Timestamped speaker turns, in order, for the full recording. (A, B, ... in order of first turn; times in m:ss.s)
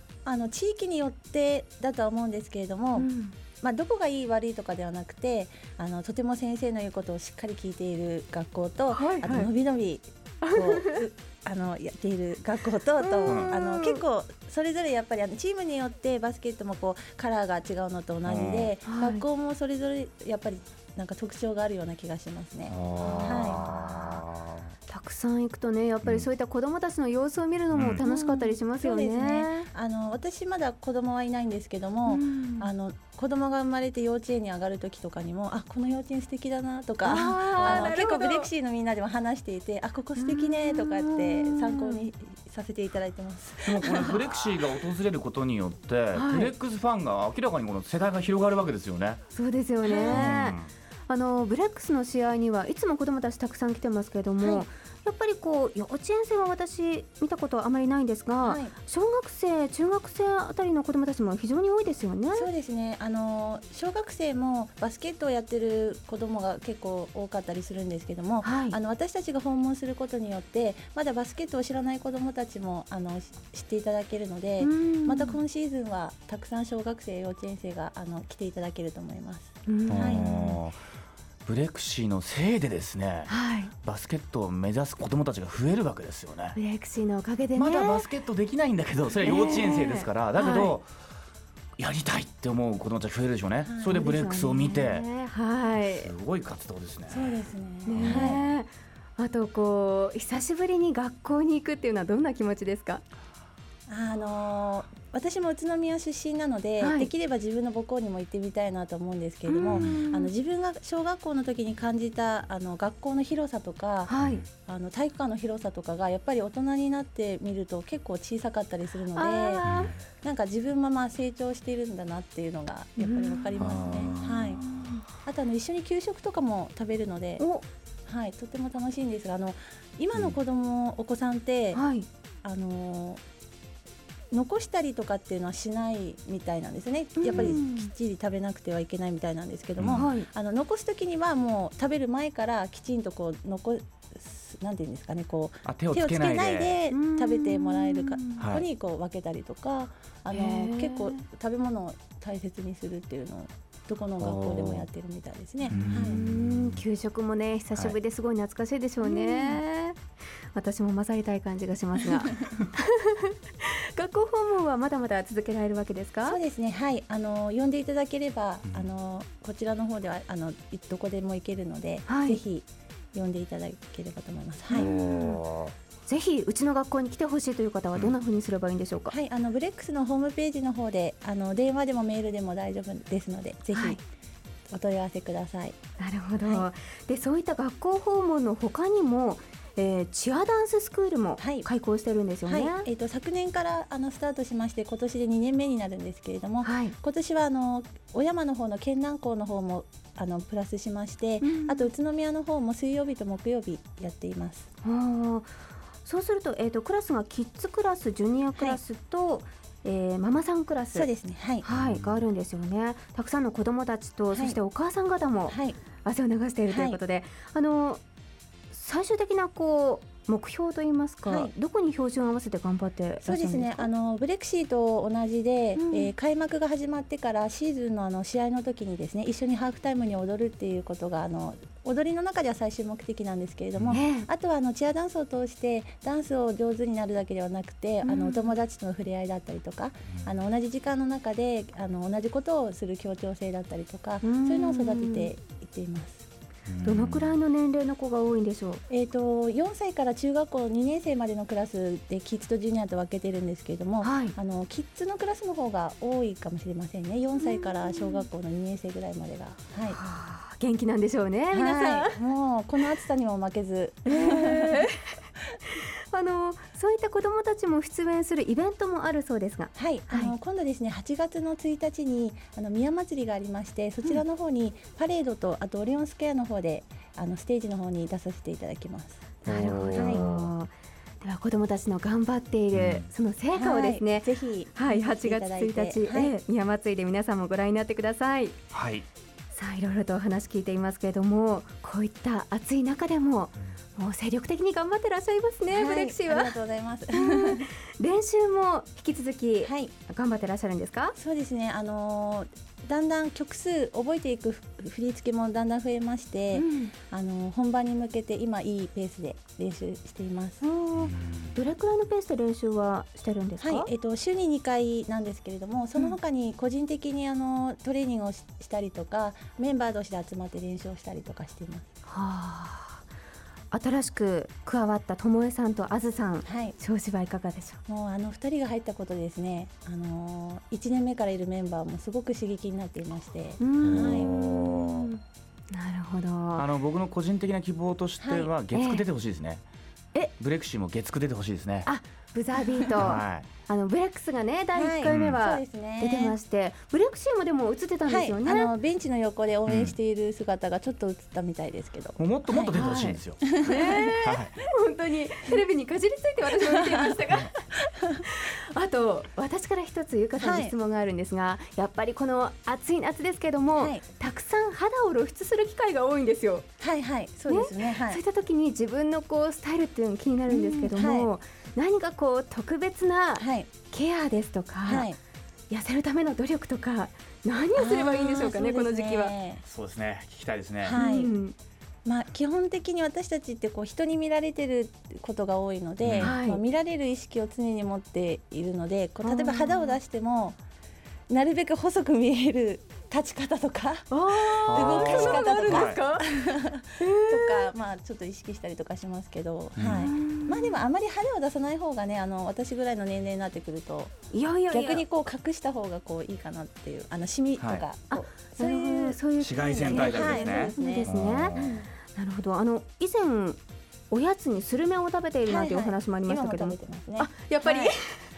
0:00.2-0:03.1 A
0:03.0-0:03.3 B
0:03.6-0:23.6 A
0:08.9-0:09.5 B
0:10.4-0:11.0 B
0:13.0-0:14.0 B
0:13.3-0:13.5 C
0:18.2-0:18.8 C
0:18.8-0:19.2 B
0:22.7-0:24.7 C
0:23.0-0:24.2 B
0:24.9-0:29.7 B
0:27.7-0:28.0 C
0:28.0-0:44.2 A
0:32.1-0:32.7 B
0:37.0-0:38.5 B
0:37.6-0:37.9 C
0:40.2-0:42.1 B
0:43.6-0:49.2 C
0:43.8-0:44.2 B
0:46.1-0:46.5 B
0:49.3-1:02.5 B
0:49.8-0:50.5 A
0:50.0-0:50.7 C
0:54.4-0:54.7 A
0:58.4-0:58.8 A
1:02.3-1:20.3 A
1:08.4-1:08.8 B
1:14.6-1:15.4 B
1:19.7-1:20.6 B
1:19.9-1:20.8 C
1:21.5-1:23.3 C
1:23.3-1:23.7 B
1:23.8-1:26.6 C
1:26.6-1:28.1 B
1:27.6-1:30.9 C
1:29.2-1:30.8 B
1:31.8-1:35.0 C
1:33.6-1:34.0 A
1:33.9-1:36.1 B
1:35.8-1:38.4 C
1:37.1-1:38.4 A
1:37.9-1:43.0 B
1:43.9-1:54.1 A
1:46.8-1:47.1 B
1:49.5-1:50.3 B
1:49.7-1:50.0 C
1:54.1-1:54.4 B
1:54.6-1:59.6 A
1:59.1-2:00.0 B
1:59.6-2:00.0 C
2:00.2-2:07.4 A
2:03.0-2:03.5 B
2:03.6-2:05.0 C
2:07.4-2:07.6 B
2:08.1-2:11.8 A
2:11.7-2:12.1 B
2:12.4-2:13.2 A
2:14.3-2:36.2 A
2:17.2-2:17.9 B
2:19.8-2:20.1 C
2:20.0-2:20.3 B
2:25.6-2:26.8 C
2:26.9-2:28.4 B
2:30.3-2:31.2 B
2:34.2-2:34.9 C
2:35.7-2:40.0 B
2:35.7-2:36.8 C
2:39.0-2:39.6 A
2:40.6-2:46.4 B
2:46.2-2:54.9 A
2:52.1-2:52.4 B
2:54.7-2:55.4 B
2:54.8-2:55.7 C
2:56.1-2:59.2 B
2:59.1-3:04.0 A
3:03.7-3:04.0 B
3:04.7-3:05.8 A
3:06.0-3:12.9 B
3:06.4-3:06.7 A
3:11.4-3:11.7 A
3:12.4-3:24.7 A
3:16.6-3:17.0 B
3:21.4-3:21.9 B
3:24.8-3:25.5 B
3:26.0-3:31.1 B
3:30.9-3:31.6 A
3:31.6-3:38.0 B
3:31.7-3:32.2 C
3:34.3-3:34.6 A
3:35.5-3:35.8 A
3:36.7-3:37.0 A
3:38.7-3:43.9 B
3:41.2-3:41.5 A
3:43.2-4:06.2 A
3:45.8-3:46.1 B
3:53.9-3:54.3 B
3:58.0-3:58.6 B
4:04.2-4:05.3 B
4:06.7-4:07.3 C
4:06.8-4:08.8 B
4:08.9-4:20.0 A
4:14.0-4:14.4 B
4:17.4-4:18.3 B
4:19.9-4:22.2 B
4:21.5-4:24.9 A
4:24.0-4:25.1 B
4:26.1-4:30.3 B
4:29.8-4:39.2 A
4:39.4-4:48.6 B
4:39.4-4:40.5 C
4:40.0-4:40.2 A
4:42.7-4:43.1 C
4:43.5-4:46.3 A
4:48.7-4:49.1 C
4:49.5-4:56.6 B
4:55.7-4:57.7 A
4:57.1-5:01.2 B
4:59.6-4:59.9 A
5:01.2-5:10.6 A
5:06.5-5:06.9 B
5:10.6-5:13.9 B
5:11.0-5:11.5 C
5:13.6-5:21.9 A
5:22.1-5:23.0 B
5:23.7-5:27.8 B
5:26.4-5:26.8 A
5:27.9-5:34.3 A
5:33.6-5:36.7 B
5:33.8-5:35.1 C
5:36.6-5:39.6 C
5:38.2-5:38.5 A
5:38.7-5:39.0 B
5:40.4-5:41.9 C
5:41.8-5:48.7 B
5:43.0-5:43.5 C
5:44.8-5:46.4 A
5:45.1-5:45.4 C
5:48.0-5:52.8 A
5:49.7-5:50.0 C
5:52.2-5:53.4 C
5:52.7-6:06.7 B
5:53.4-5:54.0 A
5:54.2-5:54.6 C
5:56.7-5:57.2 A
6:00.4-6:00.7 A
6:03.8-6:04.0 A
6:06.8-6:08.2 A
6:07.5-6:15.1 B
6:10.5-6:11.3 A
6:13.4-6:13.7 A
6:14.8-6:15.2 A
6:15.7-6:19.4 B
6:17.8-6:19.6 A
6:19.7-6:21.0 C
6:20.8-6:21.4 A
6:20.9-6:21.6 B
6:22.0-6:30.6 A
6:26.0-6:26.4 C
6:26.2-6:26.6 B
6:29.2-6:30.0 B
6:31.3-6:44.1 A
6:34.1-6:36.4 B
6:34.7-6:36.0 C
6:37.0-6:37.7 B
6:39.8-6:40.1 C
6:40.0-6:40.8 B
6:44.3-6:45.1 B
6:44.7-6:49.2 A
6:47.6-6:47.8 C
6:48.1-6:51.5 B
6:49.4-6:51.8 C
6:49.8-6:51.9 A
6:52.1-6:58.3 B
6:55.5-6:57.9 A